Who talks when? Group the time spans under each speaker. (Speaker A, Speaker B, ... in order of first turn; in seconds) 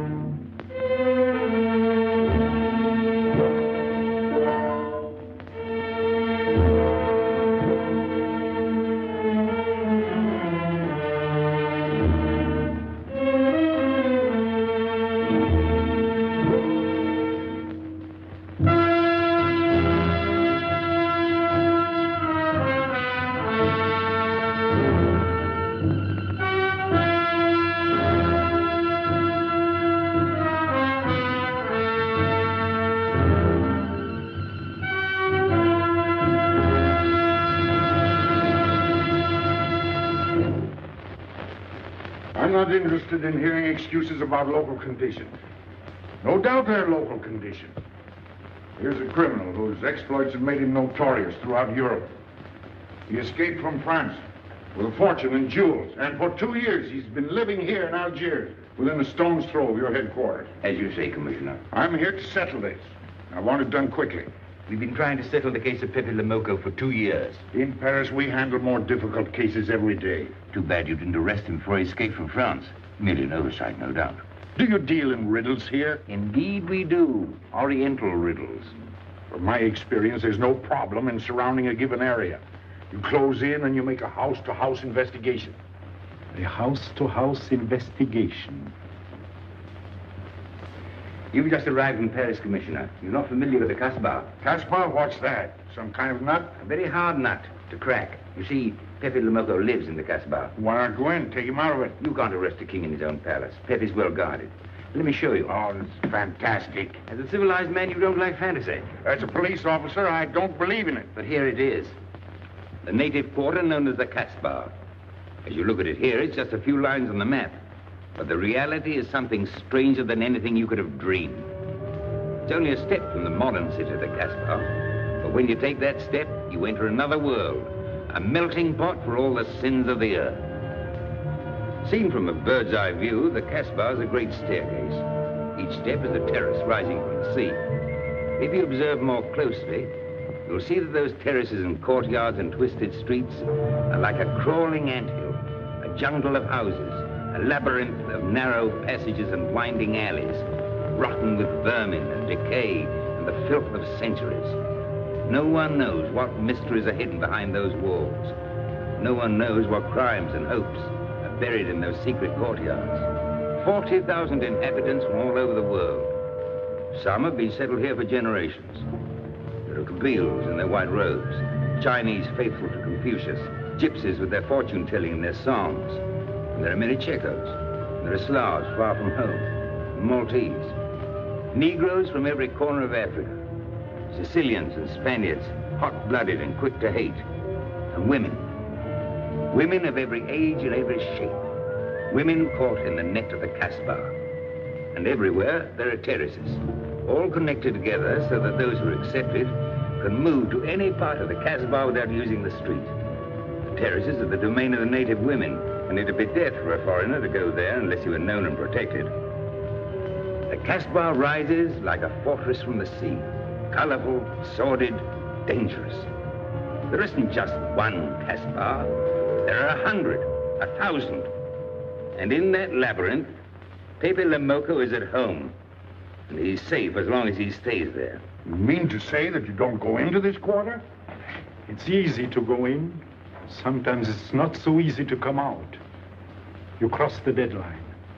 Speaker A: 42.3-45.4, 46.2-47.8, 48.8-52.1, 53.1-54.2, 54.8-60.5, 61.7-64.3, 67.5-70.3, 74.6-76.0, 79.3-85.6, 94.4-96.5, 100.6-102.0, 105.5-107.0, 109.0-111.1, 228.4-230.8
Speaker B: 60.6-61.6, 64.7-67.4, 70.5-74.2, 76.1-78.7, 91.3-94.3, 96.6-100.5, 102.0-105.5, 107.1-108.9, 111.2-112.0, 112.8-114.8, 115.5-117.6, 118.2-121.5, 122.5-130.5, 131.8-135.0, 135.6-137.6, 138.4-139.9, 140.4-154.6, 155.3-158.4, 159.0-163.1, 163.6-166.1, 166.9-168.9, 169.7-176.0, 176.5-180.8, 181.5-183.5, 184.1-187.2, 187.9-188.5, 189.5-191.4, 192.1-194.2, 194.9-202.9, 203.7-209.1, 210.5-216.1, 216.9-221.3, 222.1-223.3, 224.0-225.6, 226.3-228.2
Speaker C: 86.3-88.7, 231.7-235.8, 236.8-237.9